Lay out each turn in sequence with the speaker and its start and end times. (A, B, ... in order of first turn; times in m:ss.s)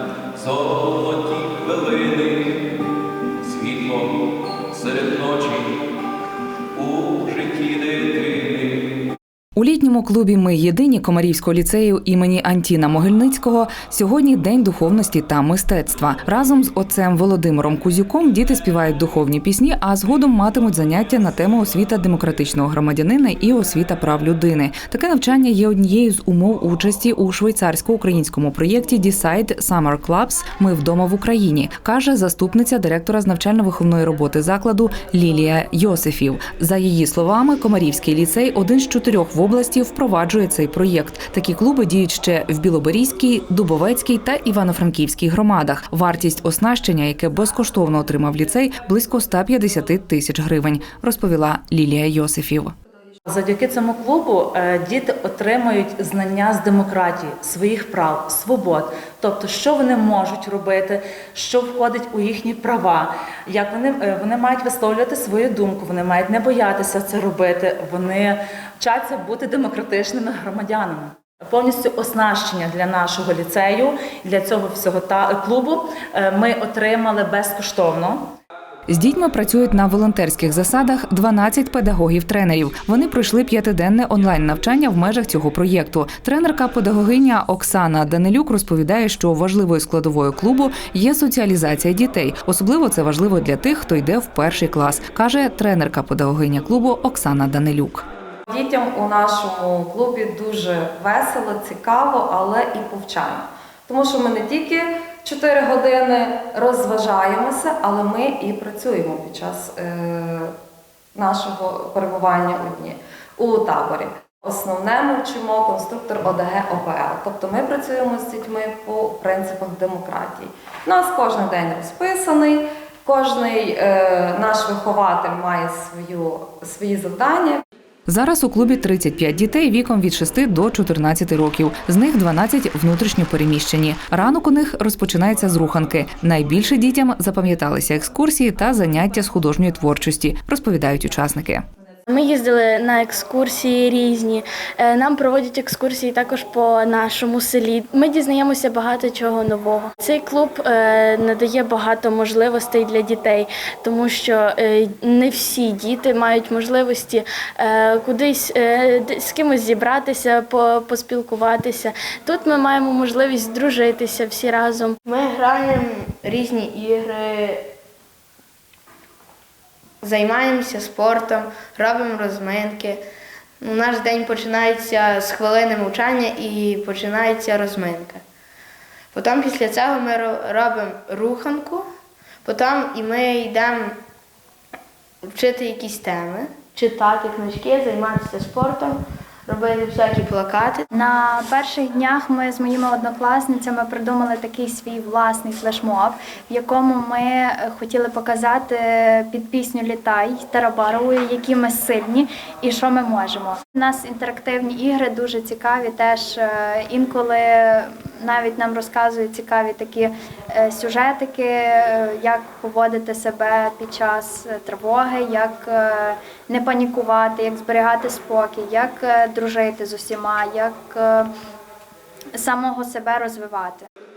0:00.4-0:02.3 A
0:03.4-0:04.1 A
0:04.7-0:05.6 A
0:06.7-0:08.6 A
0:09.6-0:52.7 B
0:53.2-1:18.3 A
1:18.9-1:38.0 B
1:38.5-1:50.5 C
1:51.1-2:07.6 C
2:08.1-2:21.6 B
2:22.1-2:45.0 D
2:45.1-2:47.6 E
2:50.0-2:53.0 E
2:53.6-2:58.2 E
2:59.1-3:01.8 E
3:02.4-3:04.0 E
3:05.3-3:10.8 E
3:10.9-3:41.3 F
3:42.4-3:43.8 F